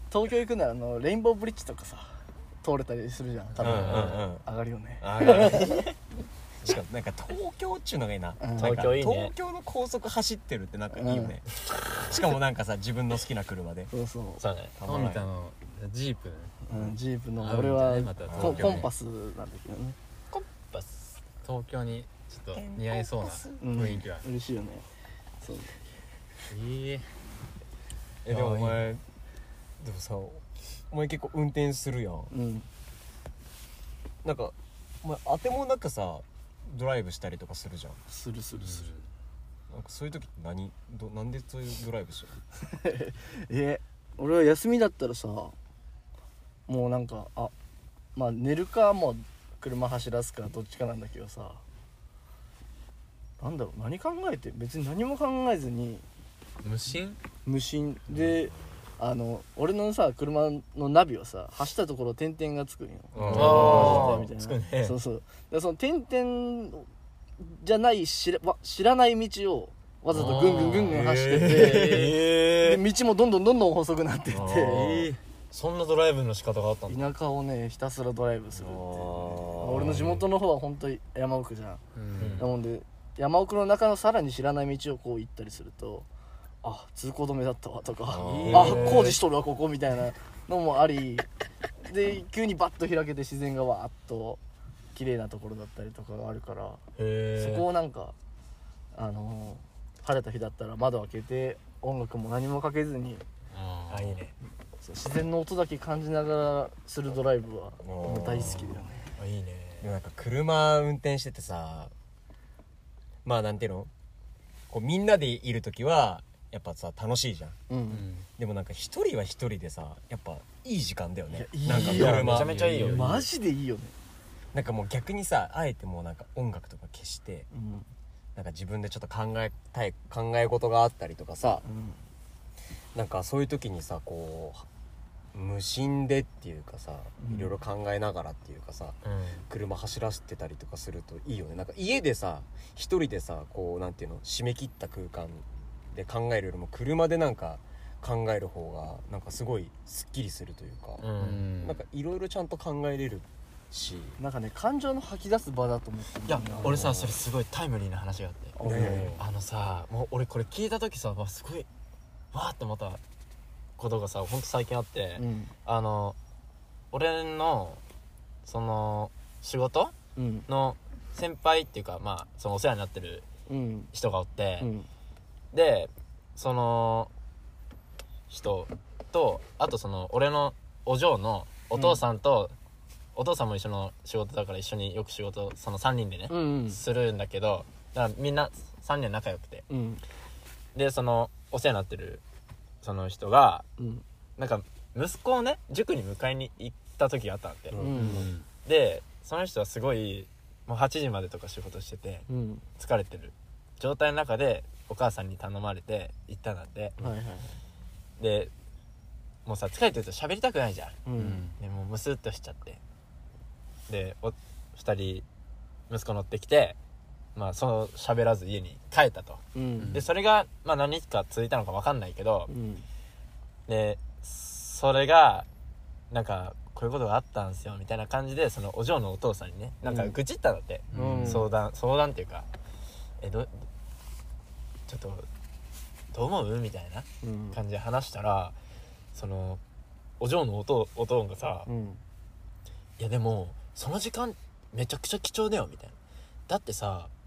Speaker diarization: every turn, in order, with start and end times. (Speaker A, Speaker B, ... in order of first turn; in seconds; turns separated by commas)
Speaker A: 0.1-5.8, Speaker B: 3.6-4.1, Speaker C: 3.6-4.5, Speaker D: 3.7-4.2, Speaker C: 5.0-5.8, Speaker D: 5.5-5.8, Speaker C: 6.6-13.9, Speaker A: 8.4-8.8, Speaker D: 8.6-9.3, Speaker A: 10.9-11.4, Speaker A: 13.9-14.4, Speaker D: 14.4-14.8, Speaker C: 14.8-15.3, Speaker B: 14.8-16.8, Speaker A: 16.7-20.0, Speaker B: 17.4-18.9, Speaker C: 18.3-18.7, Speaker D: 20.3-21.2, Speaker B: 21.4-24.3, Speaker C: 22.5-23.6, Speaker A: 23.6-24.9, Speaker A: 25.4-25.8, Speaker B: 26.5-27.1, Speaker C: 28.2-29.0, Speaker B: 28.3-28.9, Speaker C: 29.8-32.3, Speaker A: 32.3-32.7, Speaker C: 34.2-38.0, Speaker A: 38.1-39.0, Speaker B: 38.6-39.1, Speaker C: 39.7-42.4, Speaker A: 42.7-45.5, Speaker A: 46.7-47.5, Speaker A: 48.1-51.6, Speaker A: 53.4-56.1, Speaker B: 56.6-57.2, Speaker A: 57.4-66.9, Speaker C: 63.1-64.2, Speaker B: 63.2-64.1, Speaker D: 63.3-65.0, Speaker A: 67.4-75.1, Speaker D: 70.1-72.8, Speaker C: 70.9-71.7, Speaker C: 74.3-74.8, Speaker D: 74.6-77.1, Speaker A: 76.9-81.8, Speaker C: 78.5-80.1, Speaker B: 79.7-80.2, Speaker B: 82.0-82.5, Speaker D: 82.2-82.5, Speaker A: 82.4-86.1, Speaker A: 86.6-91.3, Speaker C: 88.1-89.0, Speaker B: 88.1-89.1, Speaker D: 88.5-89.2, Speaker A: 91.9-94.4, Speaker A: 94.9-96.8, Speaker D: 97.0-97.7, Speaker A: 97.4-98.2, Speaker A: 98.9-103.2, Speaker B: 103.5-104.2, Speaker D: 103.9-104.3, Speaker A: 104.8-109.1, Speaker C: 107.8-108.8, Speaker D: 109.2-109.9, Speaker C: 109.8-111.9, Speaker C: 113.2-113.9, Speaker C: 114.7-117.6, Speaker A: 117.7-118.1, Speaker B: 117.9-118.2, Speaker C: 118.4-122.6, Speaker A: 121.3-123.9, Speaker D: 121.7-123.1, Speaker B: 121.8-123.3, Speaker C: 124.5-127.5, Speaker A: 127.5-127.9, Speaker C: 128.3-131.7, Speaker A: 131.6-132.0, Speaker C: 132.9-134.7, Speaker C: 135.3-151.1, Speaker A: 137.2-137.6, Speaker D: 139.0-139.5, Speaker D: 151.0-151.4, Speaker B: 151.2-151.8, Speaker C: 151.6-154.2, Speaker A: 154.2-156.9, Speaker D: 156.3-158.6, Speaker C: 156.6-157.1, Speaker A: 158.6-159.1, Speaker C: 158.6-159.2, Speaker B: 158.7-159.2, Speaker D: 159.2-161.7, Speaker D: 162.3-163.0, Speaker D: 163.8-166.2, Speaker A: 165.2-165.5, Speaker D: 166.9-167.8, Speaker D: 168.4-169.9, Speaker A: 170.2-170.5, Speaker D: 170.5-173.3, Speaker A: 173.5-173.9, Speaker D: 173.9-174.7, Speaker A: 174.6-174.9, Speaker D: 175.5-177.1, Speaker D: 178.3-182.6, Speaker A: 181.7-182.0, Speaker D: 183.2-189.7, Speaker A: 186.3-186.8, Speaker A: 189.7-190.0, Speaker D: 190.8-192.2, Speaker D: 192.8-193.7, Speaker A: 193.8-194.0, Speaker D: 194.4-197.8, Speaker C: 197.7-198.3, Speaker A: 197.8-198.3, Speaker B: 198.0-198.5, Speaker D: 198.6-202.3, Speaker A: 202.3-202.7, Speaker D: 202.8-206.9, Speaker A: 207.0-207.6, Speaker D: 208.2-208.5, Speaker D: 209.4-211.0, Speaker A: 211.1-211.5, Speaker B: 211.2-211.6, Speaker D: 211.6-212.8, Speaker D: 213.9-215.3, Speaker D: 215.9-216.8, Speaker D: 217.3-222.5, Speaker A: 219.6-220.0, Speaker B: 219.8-220.1, Speaker A: 222.5-222.9, Speaker D: 223.7-225.5, Speaker D: 226.1-232.5, Speaker A: 229.8-230.2, Speaker B: 230.9-231.5, Speaker A: 230.9-231.5, Speaker D: 233.2-233.7, Speaker D: 234.9-235.3, Speaker D: 236.1-238.6, Speaker A: 237.2-237.6, Speaker D: 239.1-239.6, Speaker D: 240.2-241.7, Speaker A: 241.7-242.0, Speaker D: 243.0-246.0, Speaker D: 246.5-247.1